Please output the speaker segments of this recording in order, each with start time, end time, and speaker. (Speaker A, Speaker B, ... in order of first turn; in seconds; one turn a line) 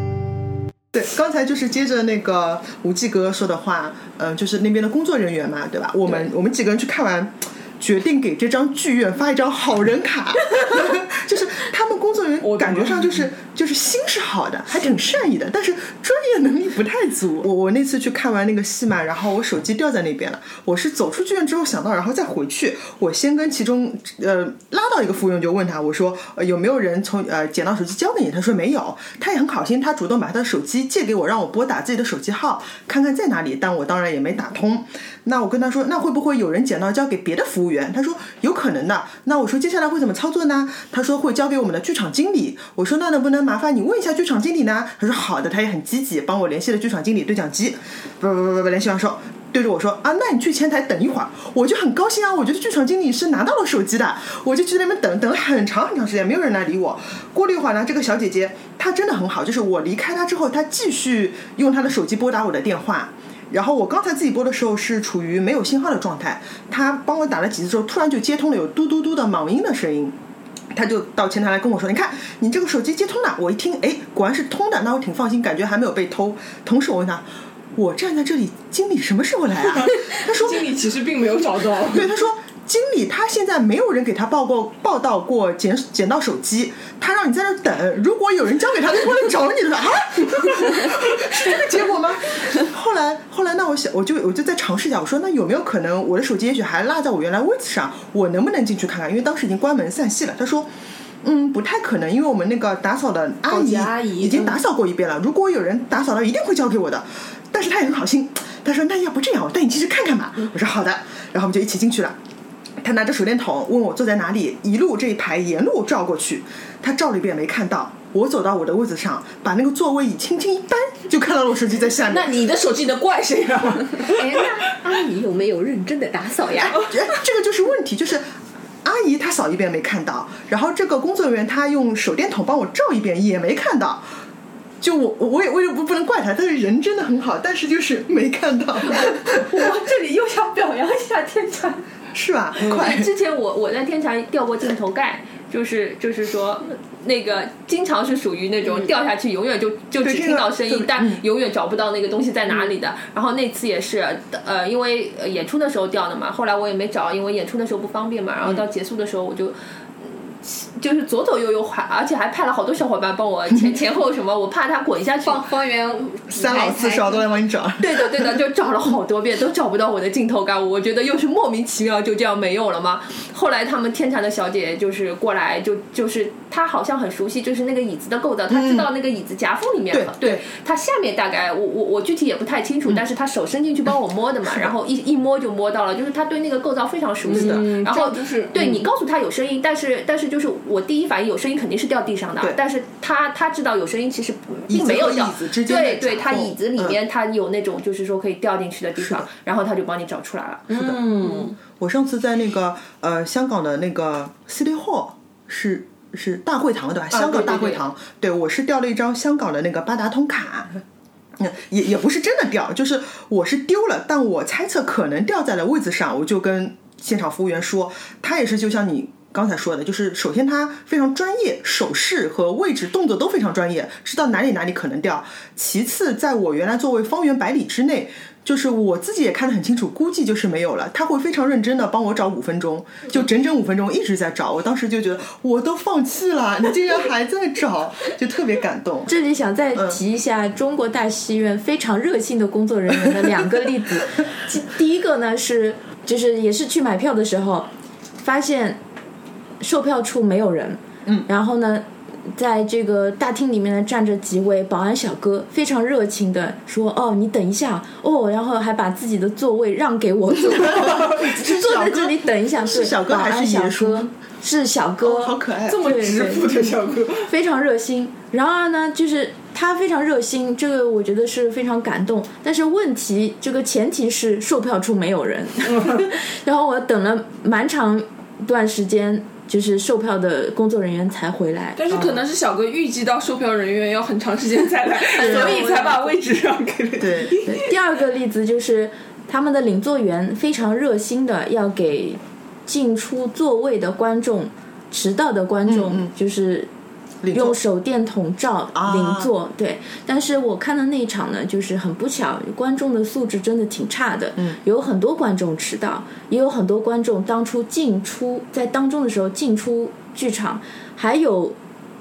Speaker A: 0.9-70.2
Speaker B: 12.4-13.3
Speaker A: 70.7-80.7
Speaker B: 79.9-82.1
Speaker A: 81.9-100.7
Speaker A: 101.2-112.2
Speaker B: 103.5-104.6
Speaker A: 112.8-122.3
Speaker B: 122.0-124.4
Speaker C: 124.1-127.0
Speaker A: 126.5-128.3
Speaker A: 128.8-134.1
Speaker A: 134.8-139.5
Speaker D: 138.9-141.9
Speaker A: 142.1-143.1
Speaker D: 142.6-165.5
Speaker A: 150.0-151.2
Speaker C: 165.2-167.3
Speaker A: 166.3-168.4
Speaker D: 167.8-200.7
Speaker A: 178.5-178.9
Speaker A: 179.9-180.5
Speaker A: 187.3-187.7
Speaker B: 187.3-188.6
Speaker A: 194.7-197.0
Speaker A: 199.0-199.3
Speaker B: 200.7-201.6
Speaker A: 201.6-210.7
Speaker D: 207.1-207.8
Speaker A: 211.4-239.1
Speaker E: 239.1-247.7
Speaker E: 248.2-248.8
Speaker E: 249.6-281.8
Speaker A: 260.6-264.1
Speaker A: 265.0-265.8
Speaker B: 265.6-267.3
Speaker B: 275.7-276.0
Speaker B: 281.8-287.7
Speaker A: 281.9-282.2
Speaker E: 285.1-286.0
Speaker A: 287.0-287.3
Speaker E: 287.4-296.7
Speaker A: 295.7-296.1
Speaker A: 297.2-297.6
Speaker E: 297.3-311.6
Speaker A: 298.8-299.3